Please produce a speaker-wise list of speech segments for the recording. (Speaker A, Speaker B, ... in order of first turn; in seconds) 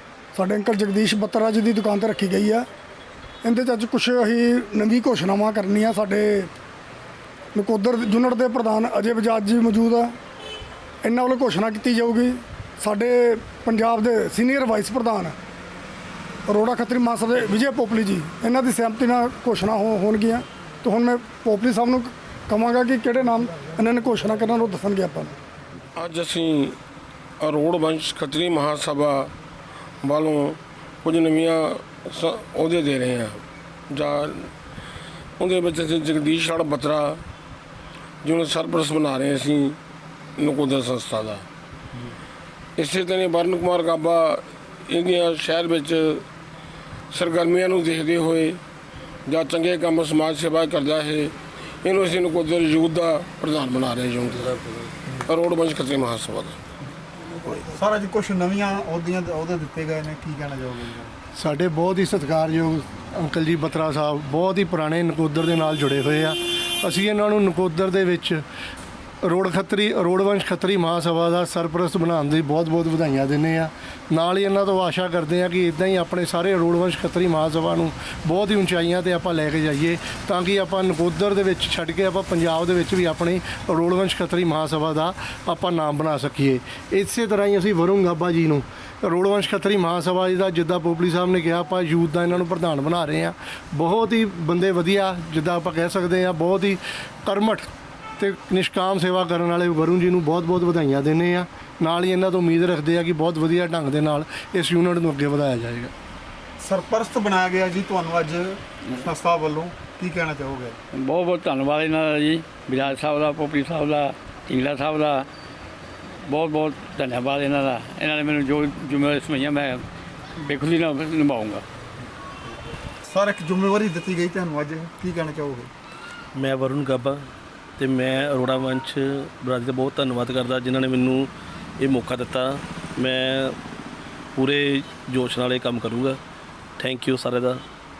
Speaker A: 0.3-2.6, 3.4-6.5, 7.5-10.1, 11.0-15.3, 16.5-25.3
Speaker B: 25.9-26.8, 27.4-29.3, 30.0-34.5, 35.4-37.2, 38.2-39.8, 40.4-41.4, 42.8-46.2, 47.1-48.6, 49.2-56.6
Speaker C: 57.4-61.1, 106.6-110.8, 123.1-125.7
Speaker D: 61.4-68.4, 69.2-97.7, 98.2-105.9
Speaker E: 110.9-115.3, 116.3-119.8, 120.4-121.6
Speaker F: 126.3-127.2, 127.8-133.5, 134.3-136.2, 136.8-137.6